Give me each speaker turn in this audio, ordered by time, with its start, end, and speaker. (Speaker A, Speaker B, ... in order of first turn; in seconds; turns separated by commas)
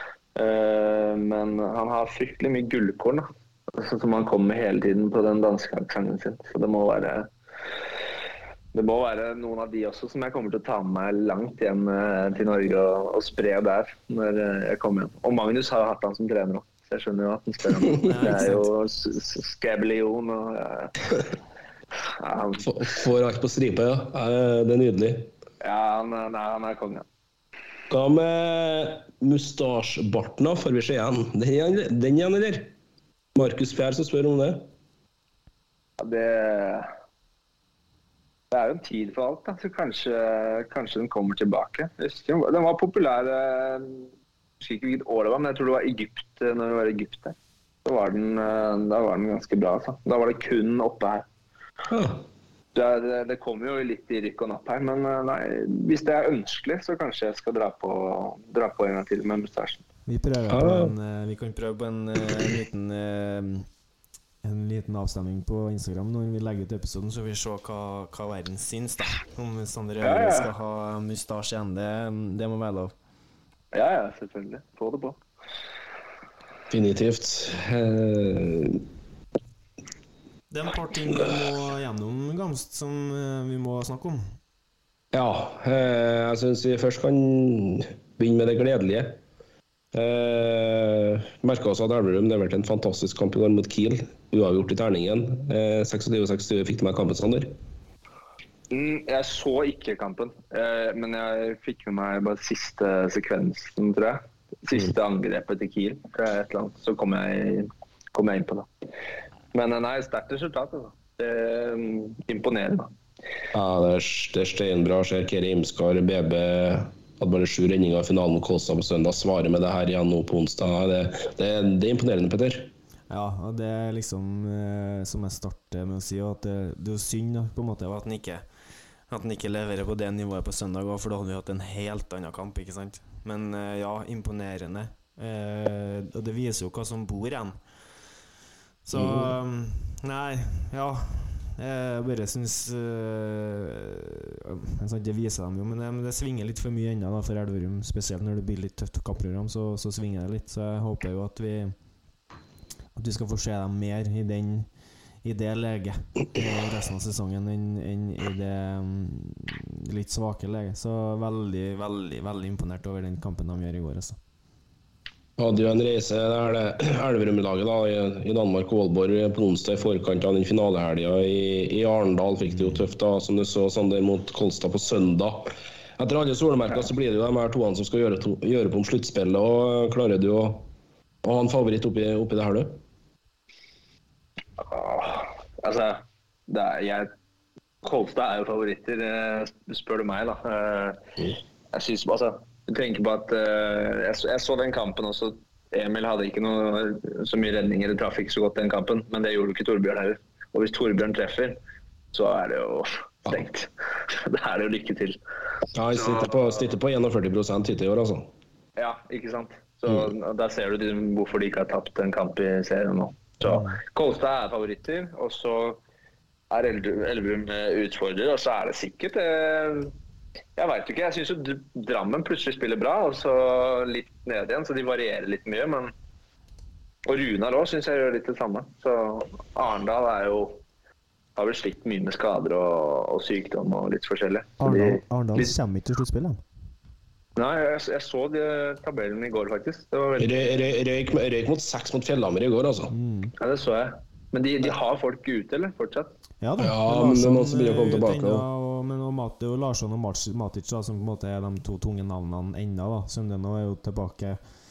Speaker A: 0.3-7.3, Speaker A: 8.7-21.0, Speaker B: 18.0-18.7, Speaker A: 22.2-22.7, Speaker C: 22.6-25.3, Speaker A: 25.6-27.1, Speaker C: 27.9-32.7, Speaker C: 33.4-34.7, Speaker A: 36.0-36.9, Speaker A: 38.5-44.1, Speaker A: 44.6-51.2, Speaker C: 51.9-52.2, Speaker A: 52.7-59.8, Speaker B: 60.1-63.7, Speaker C: 60.5-60.9, Speaker B: 64.4-72.9, Speaker A: 70.0-70.5, Speaker A: 73.7-75.2, Speaker C: 76.7-78.8, Speaker B: 80.5-84.3, Speaker C: 85.1-89.2, Speaker C: 89.9-97.5, Speaker A: 98.7-108.7, Speaker A: 109.5-112.9, Speaker C: 113.5-122.7, Speaker B: 123.1-128.4, Speaker B: 129.1-137.6, Speaker B: 138.8-151.8, Speaker C: 138.9-139.3, Speaker B: 152.9-154.7, Speaker B: 155.2-164.2, Speaker C: 165.4-175.5, Speaker B: 172.5-172.8, Speaker C: 176.0-180.7, Speaker C: 181.2-182.8, Speaker A: 184.6-187.1, Speaker A: 187.8-191.0, Speaker A: 191.7-201.6, Speaker A: 202.1-205.2, Speaker C: 205.7-208.3, Speaker A: 205.9-206.6, Speaker A: 208.8-215.8, Speaker B: 213.4-213.8, Speaker A: 216.5-219.9, Speaker A: 220.6-225.9, Speaker A: 227.1-230.6, Speaker A: 231.4-235.5, Speaker B: 234.6-236.4, Speaker A: 237.4-240.3, Speaker C: 240.2-242.9, Speaker B: 242.9-243.3, Speaker A: 243.4-246.1, Speaker B: 246.4-254.4, Speaker C: 246.6-248.4